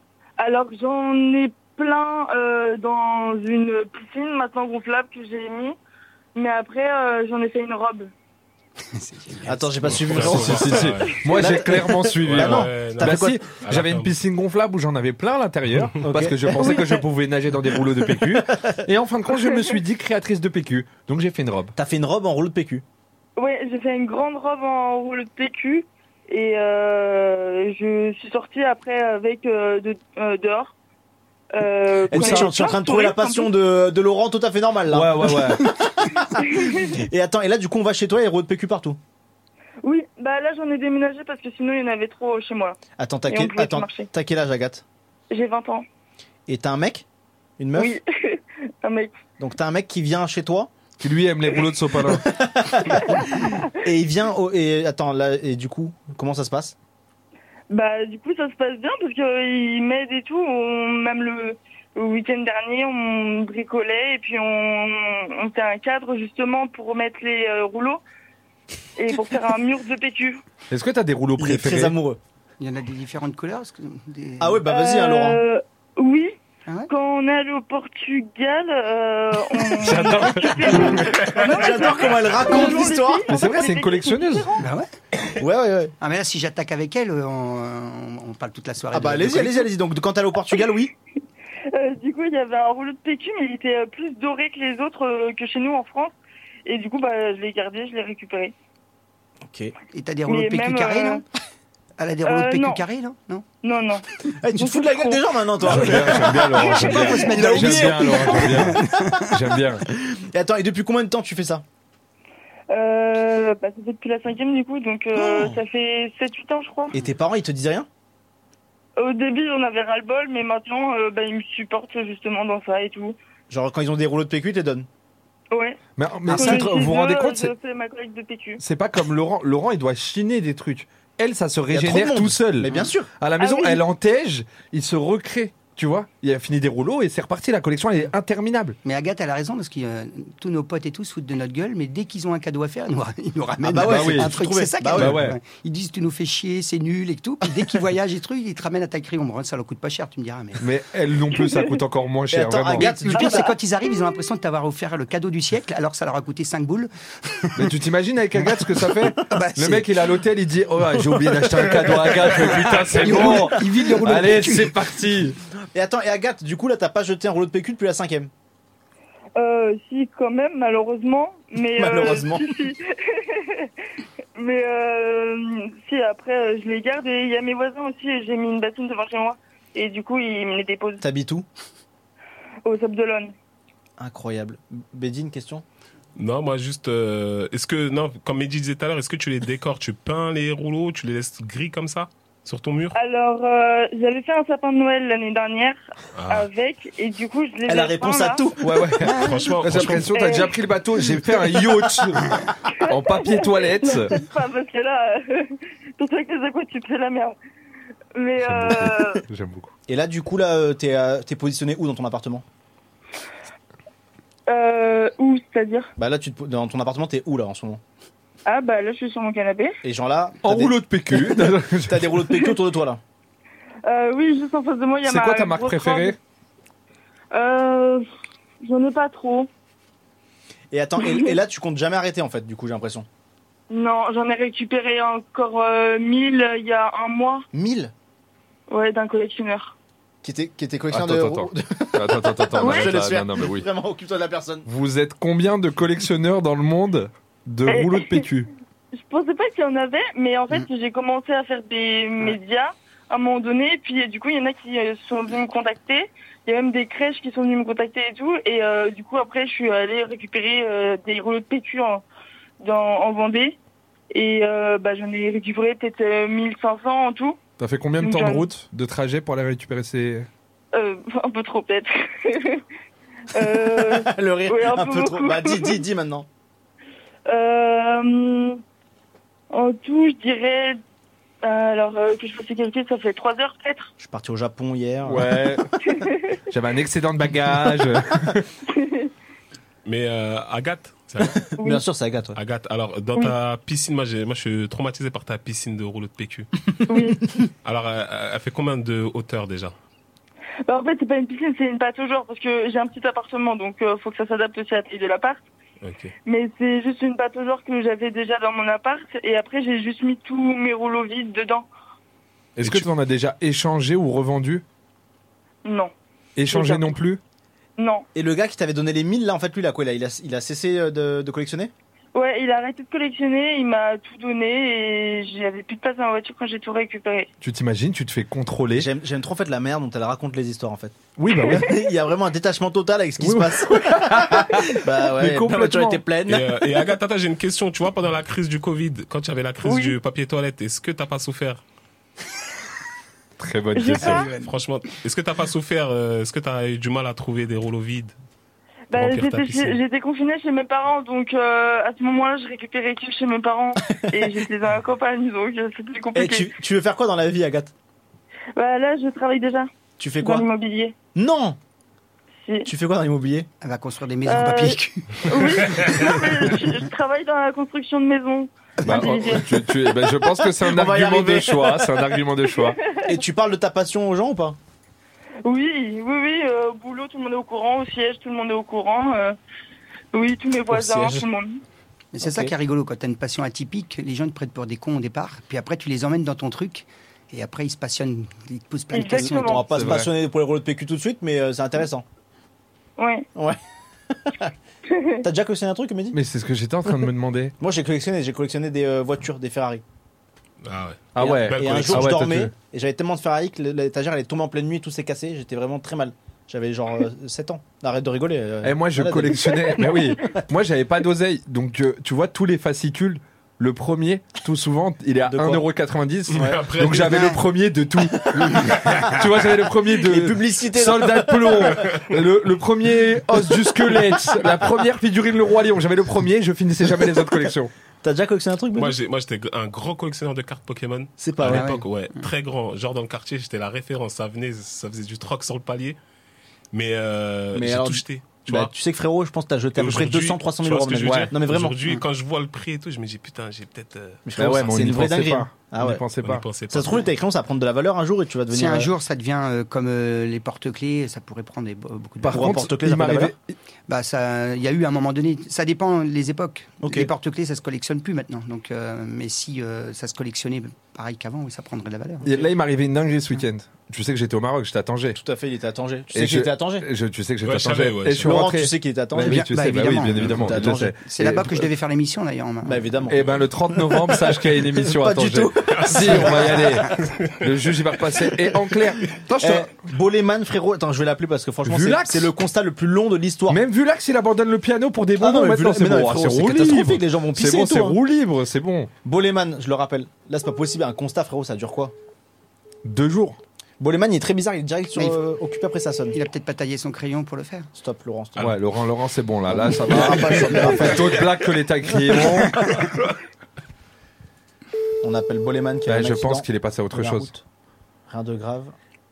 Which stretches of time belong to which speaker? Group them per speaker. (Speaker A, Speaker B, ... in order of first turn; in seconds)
Speaker A: 0.4-5.8, 6.3-8.1, 23.4-30.7, 31.5-33.5, 36.3-37.0, 39.8-42.8, 43.3-44.1, 45.3-45.9, 47.7-49.1, 57.7-68.0, 69.0-70.4, 74.7-76.3, 76.9-84.6, 91.7-96.1, 96.7-98.5, 100.3-101.2, 102.2-102.8, 103.6-104.0, 104.5-105.2, 112.7-117.0, 119.0-123.2, 125.5-128.6, 133.4-133.8, 169.4-173.7, 174.3-181.0, 182.6-183.3, 192.9-198.4, 200.1-200.5, 202.8-207.3, 208.1-209.2, 214.5-215.9, 218.4-219.8, 223.8-226.2, 227.3-228.0, 228.6-229.5, 231.0-231.3, 233.7-237.4, 238.7-239.8, 242.6-242.8, 247.7-248.2, 248.9-262.0, 262.6-263.6, 264.1-267.4, 268.0-268.5, 270.7-272.6, 273.3-275.8, 277.3-278.6, 279.5-280.8, 281.4-283.9, 285.9-286.4, 288.7-289.1, 296.9-297.2, 300.7-305.4, 306.2-311.7, 315.6-315.9, 316.5-317.0, 317.8-318.1, 322.1-327.3, 339.6-339.9, 343.7-344.3, 348.9-356.5, 358.6-360.9, 362.4-362.7, 364.3-369.5, 375.4-379.4, 380.1-381.6, 388.9-389.6, 393.0-393.3, 394.9-395.2
Speaker B: 8.9-10.0, 72.6-74.6, 84.6-84.9, 86.0-89.7, 99.9-101.2, 102.0-103.4, 106.6-109.3, 138.8-150.6, 152.7-157.7, 159.2-159.9, 162.2-164.8, 363.6-366.6, 382.1-389.9, 417.1-417.4, 431.4-432.2, 448.5-452.6, 453.9-462.3, 469.1-470.5, 471.0-473.0, 496.1-497.7
Speaker C: 9.5-13.4, 16.0-16.9, 17.9-18.8, 21.8-22.8, 32.1-39.0, 43.0-44.8, 46.5-47.0, 47.6-48.0, 49.4-50.7, 52.1-56.8, 71.4-72.2, 74.4-75.4, 81.1-83.2, 85.4-85.9, 88.9-90.9, 99.4-99.7, 104.4-109.0, 109.9-111.6, 115.1-115.6, 116.9-117.9, 123.5-124.9, 126.3-126.7, 131.7-133.1, 143.6-145.3, 152.3-153.5, 161.0-164.2, 165.7-168.3, 171.7-172.6, 181.0-181.5, 184.0-185.6, 197.7-198.9, 209.9-212.4, 216.0-217.8, 219.8-223.0, 230.7-233.1, 237.5-237.9, 240.2-244.7, 273.4-276.3, 284.0-285.6, 291.2-292.4, 318.1-321.7, 328.7-336.5, 353.9-354.3, 356.1-357.7, 360.0-360.4, 361.1-361.6, 362.6-363.5, 370.3-371.9, 373.0-374.6, 380.7-381.2, 382.2-382.5, 389.0-392.0, 394.1-394.5, 395.2-396.2, 397.6-399.8, 401.2-410.4, 415.3-415.6, 416.3-417.1, 418.3-418.8, 420.0-421.8, 428.0-428.9, 431.2-431.8, 437.5-441.8, 444.2-446.0, 446.7-448.9, 452.3-453.3, 456.8-457.1, 465.1-466.9, 468.2-469.5, 470.2-470.9, 472.6-476.9, 479.4-483.6, 485.2-488.0, 489.0-491.9, 493.8-496.2, 497.8-498.5, 499.5-501.3, 501.9-502.5, 505.0-507.4, 508.1-508.7
Speaker D: 9.9-11.2, 12.2-14.1, 186.2-192.9, 196.2-196.5, 199.0-200.1, 289.8-291.4, 292.3-296.5, 297.6-299.7, 305.8-306.1, 312.6-312.9, 336.3-341.6, 344.0-348.1, 348.9-349.8, 400.6-402.2, 416.3-417.2, 428.7-436.0, 436.7-438.7, 439.8-444.2, 446.2-447.1, 467.4-468.4, 475.7-478.0
Speaker E: 10.2-21.7, 32.1-32.5, 34.9-35.6, 51.0-52.3, 70.7-71.9, 79.8-80.9, 83.3-84.6, 105.6-109.8, 126.0-127.5, 128.6-138.8, 143.8-144.4, 144.9-145.4, 150.6-152.9, 157.6-165.3, 198.6-204.2, 208.4-209.7, 220.4-222.1, 225.0-226.2, 240.9-243.7, 244.7-248.5, 267.6-270.3, 285.1-285.6, 286.5-288.5, 312.6-314.6, 316.4-317.2, 327.4-328.9, 331.2-331.7, 333.2-336.0, 343.4-344.3, 368.8-372.8, 389.7-390.1, 396.1-397.5, 401.1-402.5, 408.6-427.7, 441.0-441.3, 444.4-446.5, 452.2-453.5, 462.2-465.2, 466.1-471.7, 473.1-479.6, 481.6-482.3, 483.5-488.9, 492.8-493.4, 498.4-502.9, 505.9-507.3